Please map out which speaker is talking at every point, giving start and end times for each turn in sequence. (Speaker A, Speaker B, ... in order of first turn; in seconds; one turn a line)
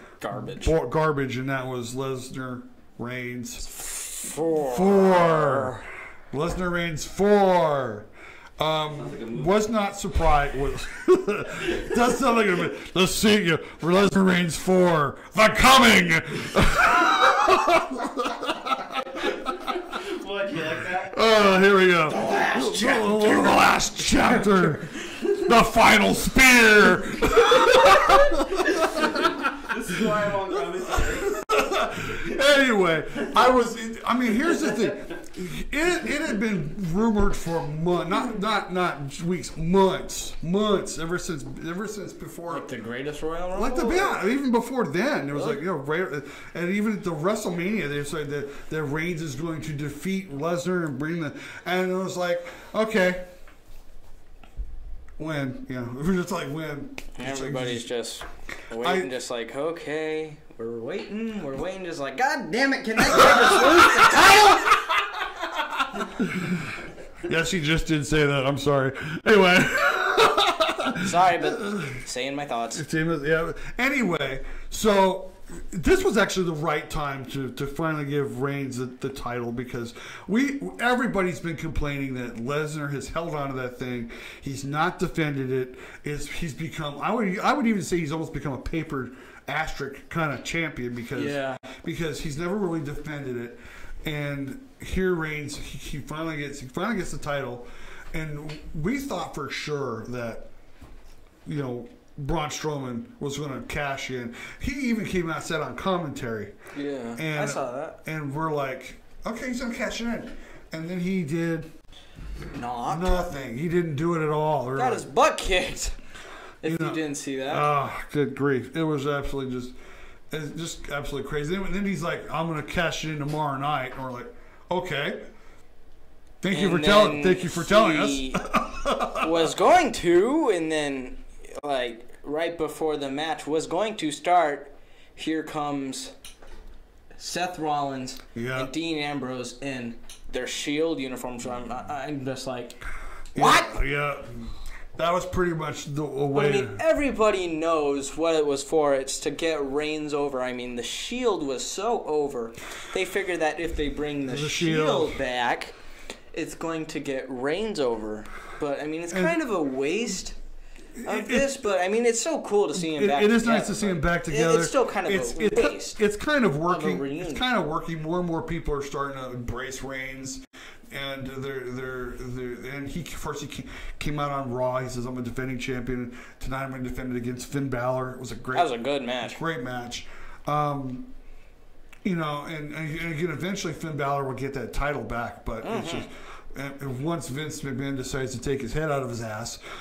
Speaker A: 0.2-0.7
Speaker B: 0.3-3.7
Speaker A: 3.6-5.8
Speaker B: 4.6-19.3
Speaker C: 9.0-9.5
Speaker C: 19.2-21.3
Speaker B: 20.9-42.8
Speaker C: 22.1-23.6
Speaker C: 28.0-32.2
Speaker C: 34.5-34.9
Speaker A: 42.5-44.3
Speaker B: 43.5-53.3
Speaker B: 55.2-57.9
Speaker A: 57.1-64.8
Speaker B: 58.8-59.1
Speaker B: 63.1-72.0
Speaker A: 71.0-72.8
Speaker B: 72.7-100.5
Speaker A: 91.1-91.7
Speaker B: 101.5-106.5
Speaker A: 106.7-108.0
Speaker B: 107.2-111.7
Speaker A: 112.5-113.2
Speaker B: 112.8-115.1
Speaker A: 114.8-116.0
Speaker A: 116.6-117.7
Speaker B: 116.6-119.8
Speaker B: 120.3-125.3
Speaker B: 126.4-129.5
Speaker A: 126.5-128.5
Speaker A: 129.2-136.1
Speaker A: 137.2-142.8
Speaker B: 138.3-138.7
Speaker B: 143.3-146.8
Speaker A: 143.3-143.8
Speaker A: 146.3-155.8
Speaker B: 154.3-155.2
Speaker A: 156.3-160.4
Speaker B: 159.1-159.4
Speaker B: 161.0-161.6
Speaker A: 161.1-166.0
Speaker B: 162.8-181.1
Speaker A: 166.7-167.5
Speaker A: 178.5-179.4
Speaker B: 182.0-189.6
Speaker A: 185.6-186.1